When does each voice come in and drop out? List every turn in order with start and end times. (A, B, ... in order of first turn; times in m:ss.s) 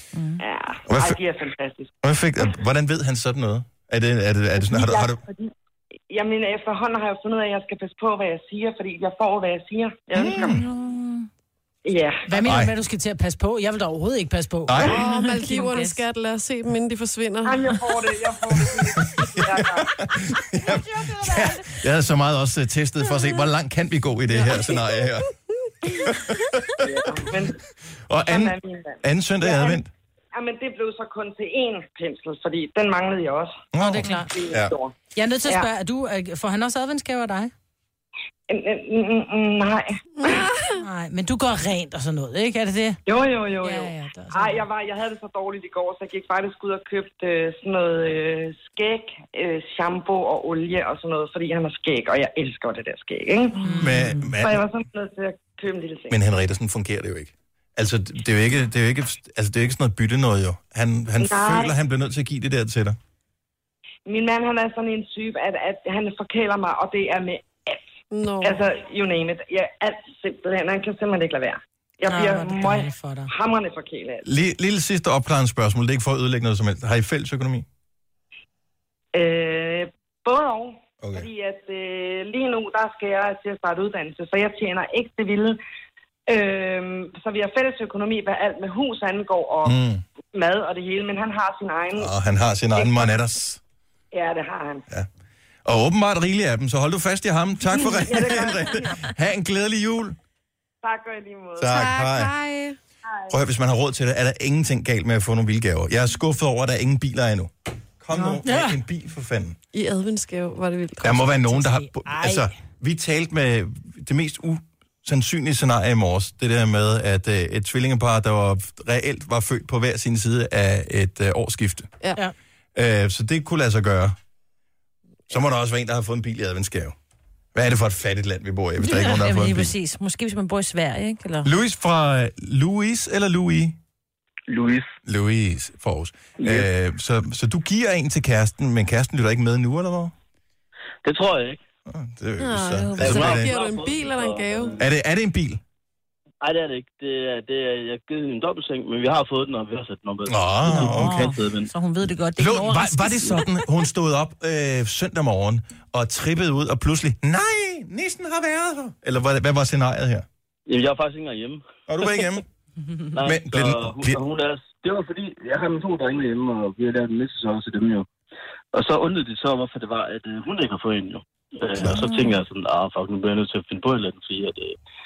0:00.1-0:00.4 A
0:00.4-0:01.9 B
0:00.9-0:01.2 C
0:02.0-0:05.2 C
0:04.6-0:05.5 B
0:06.1-0:10.6 B
0:10.1-0:10.6 C
0:10.4-0:11.3 A
0:11.8-0:12.4 B
0:12.3-0:14.8 D
0:12.4-0:12.7 C
0:14.7-0:15.0 C
0:14.8-0:17.8 E
0:15.0-0:16.0 A
0:15.5-0:15.9 D
0:17.4-0:20.0 B
0:18.9-0:25.3 C
0:25.9-0:27.6 C
0:25.9-0:26.3 E
0:26.8-0:27.6 B
0:28.1-0:29.9 C
0:28.2-0:33.6 B
0:33.7-0:34.7 C
0:33.8-0:34.3 D
0:34.2-0:35.0 B
0:35.2-0:37.5 D
0:38.5-0:40.5 B
0:40.2-0:40.8 E
0:40.8-0:43.0 D
0:43.1-0:53.7 B
0:43.6-0:44.7 D
0:53.6-0:54.2 D
0:53.6-0:54.1 A
0:53.7-0:54.7 C
0:54.4-0:56.2 B
0:56.1-1:03.0 C
1:01.2-1:01.7 B
1:04.1-1:14.2 B
1:08.1-1:08.6 E
1:12.1-1:13.3 D
1:14.2-1:17.7 C
1:19.1-1:25.6 B
1:21.0-1:21.3 C
1:26.3-1:29.8 B
1:29.6-1:30.0 C
1:30.3-1:32.1 B
1:32.0-1:33.6 C
1:32.7-1:33.1 B
1:34.1-1:34.9 B
1:35.6-1:40.2 C
1:37.7-1:39.1 B
1:40.8-1:41.8 B
1:41.6-1:42.3 C
1:41.7-1:42.8 E
1:43.3-1:49.6 C
1:48.1-1:48.8 D
1:49.7-1:51.3 E
1:51.0-2:01.9 C
1:51.5-1:52.6 D
2:02.8-2:04.1 C
2:05.3-2:07.0 C
2:07.5-2:09.7 C
2:08.8-2:11.5 A
2:11.4-2:13.8 C
2:14.5-2:14.9 F
2:15.1-2:20.1 C
2:16.4-2:16.7 F
2:21.0-2:21.6 F
2:21.9-2:23.5 C
2:22.4-2:24.8 E
2:22.8-2:23.3 A
2:23.0-2:24.8 F
2:24.8-2:25.6 C
2:26.4-2:31.7 F
2:30.3-2:31.3 C
2:30.7-2:33.6 A
2:32.4-2:40.3 C
2:40.7-2:41.7 F
2:41.9-2:42.4 C
2:43.1-2:48.1 F
2:43.2-2:44.2 C
2:48.7-2:54.8 F
2:51.8-2:52.0 C
2:51.8-2:52.4 A